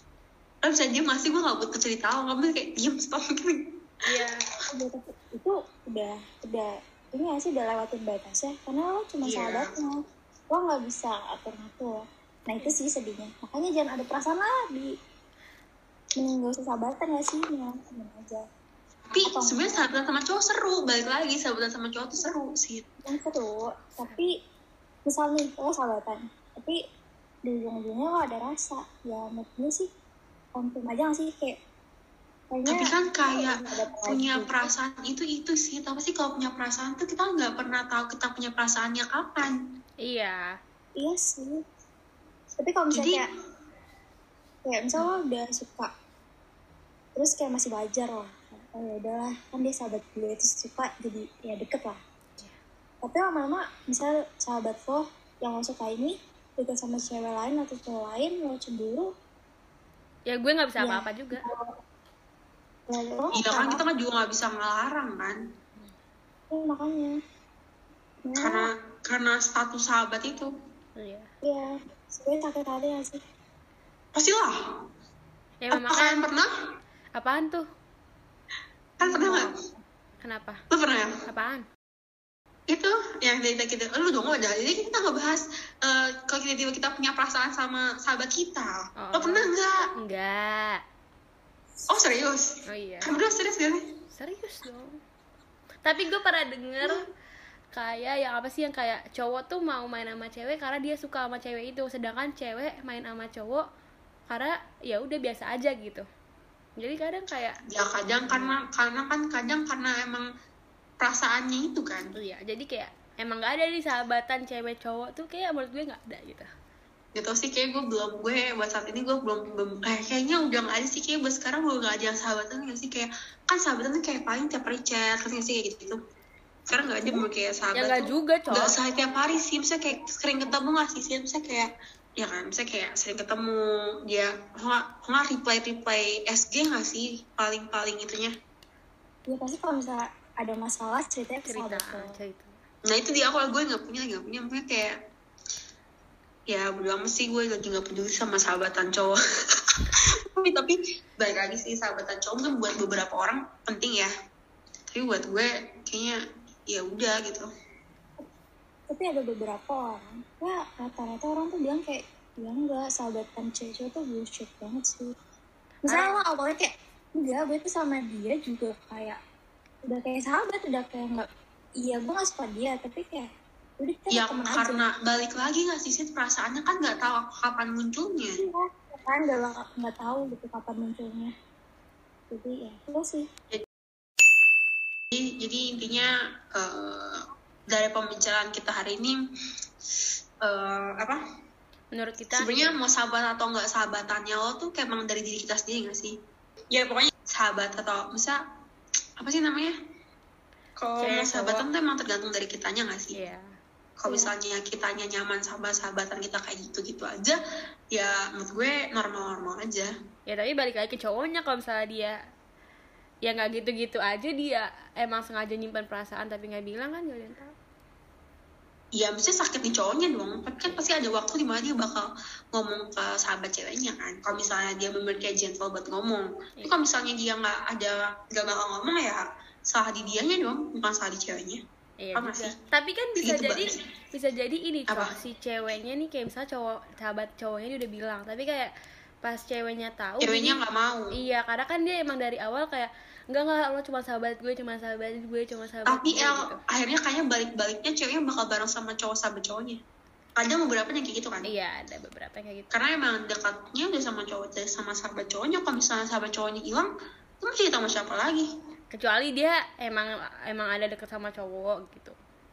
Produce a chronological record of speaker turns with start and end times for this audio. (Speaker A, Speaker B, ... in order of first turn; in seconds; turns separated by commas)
Speaker A: 0.6-3.6, Speaker B: 4.1-4.5, Speaker C: 4.7-14.9, Speaker A: 9.2-9.8, Speaker C: 16.2-18.4, Speaker A: 19.1-22.9, Speaker C: 19.2-19.9, Speaker C: 23.1-24.4, Speaker B: 24.0-24.2, Speaker C: 25.1-26.8, Speaker C: 27.4-29.9, Speaker C: 30.6-31.6, Speaker C: 32.5-34.7, Speaker A: 32.7-39.6, Speaker B: 40.0-40.6, Speaker C: 41.0-41.6, Speaker C: 42.6-43.3, Speaker A: 42.9-43.2, Speaker C: 44.6-45.9, Speaker C: 47.1-52.0, Speaker C: 53.0-59.1, Speaker B: 60.3-61.5, Speaker C: 60.8-61.7, Speaker C: 62.9-63.8, Speaker A: 63.4-65.4, Speaker C: 66.5-67.2, Speaker C: 68.2-68.7, Speaker A: 68.4-70.5, Speaker B: 71.0-71.3, Speaker C: 71.4-73.2, Speaker A: 74.2-74.6, Speaker B: 75.6-76.3, Speaker A: 75.7-76.5, Speaker B: 77.2-77.6, Speaker A: 79.0-79.5, Speaker B: 79.0-79.6, Speaker B: 80.2-80.6, Speaker A: 80.7-81.1, Speaker B: 81.3-81.7, Speaker A: 82.7-89.9, Speaker B: 89.0-90.8, Speaker A: 91.9-92.5, Speaker B: 92.7-93.2, Speaker A: 93.0-93.8, Speaker B: 94.1-95.0, Speaker B: 95.8-97.0, Speaker B: 97.7-103.6, Speaker B: 104.3-106.0, Speaker B: 106.8-107.6, Speaker A: 107.7-110.3, Speaker B: 108.3-108.6, Speaker A: 111.0-112.1, Speaker B: 112.2-116.5, Speaker A: 117.2-126.0, Speaker A: 126.7-138.3, Speaker B: 127.8-128.8, Speaker C: 139.3-142.1, Speaker B: 141.5-142.6, Speaker A: 142.9-144.9, Speaker A: 146.5-149.2, Speaker A: 149.7-154.1, Speaker A: 154.9-157.5, Speaker C: 158.9-165.1, Speaker B: 165.9-166.2, Speaker C: 165.9-169.2, Speaker C: 169.8-171.2, Speaker C: 171.8-173.3, Speaker C: 173.8-174.8, Speaker A: 174.1-178.4, Speaker C: 178.4-181.3, Speaker C: 182.3-183.3, Speaker A: 185.1-189.2, Speaker A: 190.4-191.2, Speaker B: 191.9-192.8, Speaker A: 192.3-196.1, Speaker A: 196.7-198.4, Speaker A: 199.2-199.7, Speaker A: 200.8-203.2, Speaker B: 201.0-201.7, Speaker B: 203.1-203.5, Speaker A: 204.0-207.4, Speaker C: 204.1-204.3, Speaker A: 207.9-209.9, Speaker B: 210.3-212.2, Speaker B: 213.2-217.5, Speaker A: 219.0-231.6, Speaker B: 232.0-238.7, Speaker A: 232.2-232.5, Speaker A: 233.2-233.8, Speaker B: 239.2-240.6, Speaker A: 240.2-241.1, Speaker B: 241.2-246.6, Speaker A: 245.9-249.8, Speaker A: 250.4-251.5, Speaker B: 251.4-252.7, Speaker A: 252.7-256.9, Speaker A: 257.4-258.5, Speaker B: 258.9-262.2